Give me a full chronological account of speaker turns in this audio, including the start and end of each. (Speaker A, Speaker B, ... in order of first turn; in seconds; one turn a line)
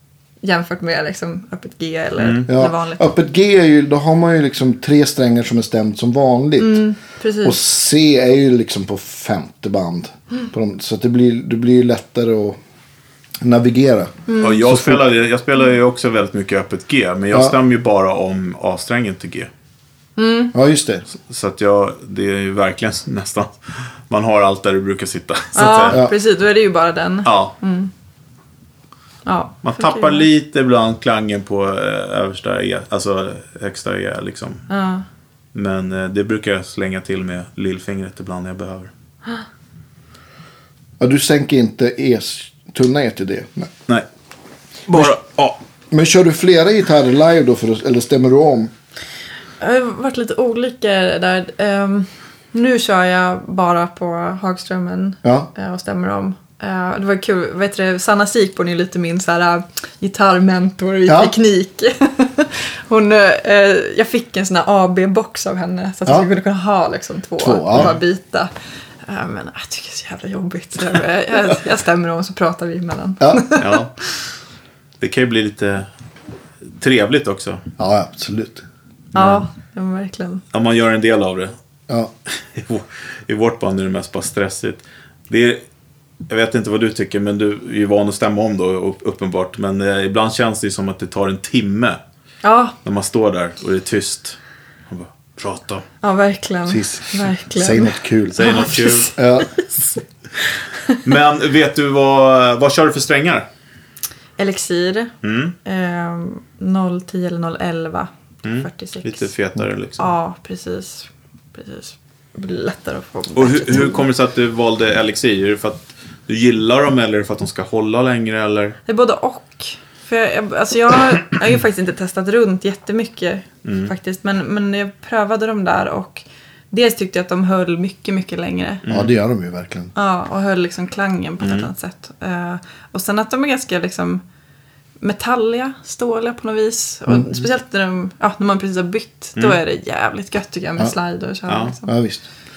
Speaker A: 0.4-3.1
Speaker B: 2.2-2.5
Speaker C: 2.5-6.8
Speaker A: 6.6-7.6
Speaker C: 7.4-12.6
Speaker C: 13.4-15.0
Speaker A: 14.3-14.6
Speaker B: 14.4-19.5
Speaker A: 20.2-20.5
Speaker C: 20.5-21.0
Speaker B: 21.2-26.0
Speaker A: 25.5-27.9
Speaker B: 27.2-27.5
Speaker A: 29.2-30.3
Speaker B: 29.6-34.6
Speaker A: 34.7-35.0
Speaker B: 35.5-38.9
Speaker C: 41.0-43.7
Speaker B: 44.9-45.6
Speaker C: 45.9-48.7
Speaker A: 49.6-68.5
Speaker C: 55.2-55.5
Speaker C: 61.1-61.3
Speaker C: 67.4-68.0
Speaker A: 69.0-73.8
Speaker B: 73.6-73.9
Speaker B: 75.0-75.9
Speaker B: 76.7-77.6
Speaker C: 77.8-78.6
Speaker A: 79.1-80.4
Speaker B: 80.5-81.5
Speaker B: 82.5-85.6
Speaker B: 86.3-92.0
Speaker A: 92.4-92.7
Speaker B: 92.8-94.4
Speaker B: 94.9-95.8
Speaker A: 96.0-99.6
Speaker C: 96.7-99.5
Speaker B: 98.3-99.1
Speaker B: 101.0-103.5
Speaker A: 104.4-109.3
Speaker B: 105.2-105.5
Speaker B: 108.4-110.1
Speaker A: 110.0-114.1
Speaker B: 113.3-118.8
Speaker A: 118.8-128.8
Speaker B: 123.6-123.9
Speaker B: 128.8-129.1
Speaker C: 128.9-129.9
Speaker A: 129.9-134.2
Speaker B: 131.4-131.7
Speaker A: 135.0-141.9
Speaker B: 141.5-141.7
Speaker C: 141.8-142.3